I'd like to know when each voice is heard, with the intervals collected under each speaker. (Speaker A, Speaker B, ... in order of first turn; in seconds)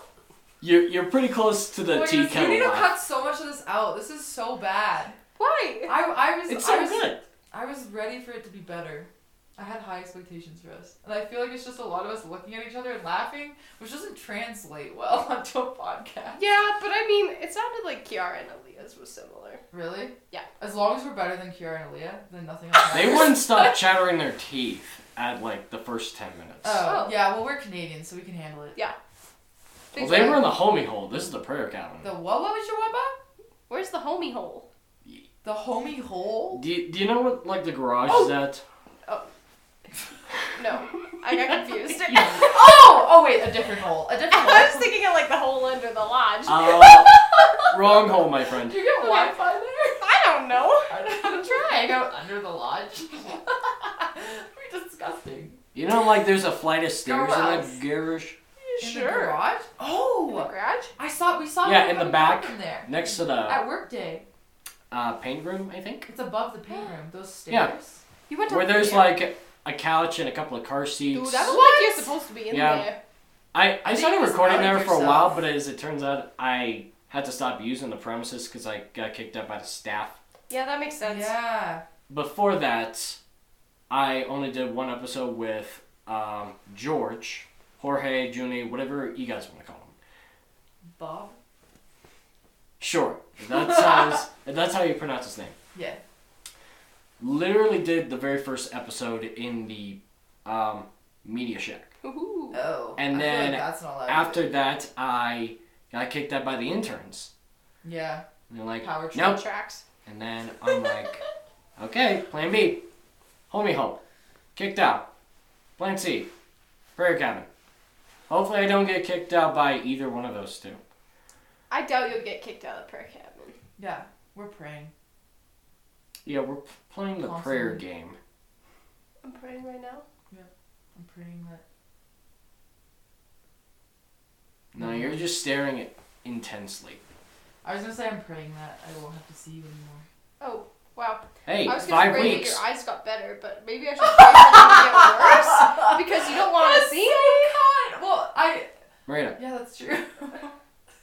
Speaker A: 0.6-2.9, 6.5-7.2, 22.9-26.9, 29.9-32.1, 36.5-38.6, 46.5-48.8, 55.7-58.4, 61.6-63.6, 64.9-66.1, 68.5-71.6, 72.5-72.9, 73.5-80.2, 82.1-83.2, 83.9-90.0, 92.8-95.5, 97.2-101.9, 103.0-107.3, 108.5-109.4, 110.0-111.2, 111.8-112.8, 113.5-114.0, 114.5-115.1, 115.8-116.3, 117.0-117.5, 118.3-120.8, 126.2-128.2, 134.7-137.0, 141.4-142.6, 149.1-149.4
Speaker B: 1.9-5.2, 5.9-16.4, 19.7-23.4, 26.6-28.8, 32.0-33.2, 35.4-36.6, 42.4-44.9, 47.4-47.8, 48.6-50.0, 50.9-55.6, 57.0-57.8, 58.8-64.2, 66.1-68.0, 71.4-72.1, 73.8-75.4, 81.0-81.8, 90.9-91.4, 93.5-94.2, 95.7-96.0, 102.5-104.5, 107.8-108.2, 108.8-109.4, 123.8-124.9, 127.2-127.8, 130.3-131.6, 134.8-135.2, 137.6-140.1, 144.0-148.7, 149.4-150.6
Speaker C: 5.4-6.0, 16.4-19.6, 26.9-27.2, 29.9-30.5, 33.7-34.7, 40.6-42.8, 44.3-47.1, 49.0-51.6, 58.6-59.4, 60.3-60.9, 66.7-67.0, 68.3-69.1, 71.1-73.0, 80.5-81.3, 102.0-102.6, 109.2-109.8, 121.7-123.6, 129.2-130.1, 140.4-147.6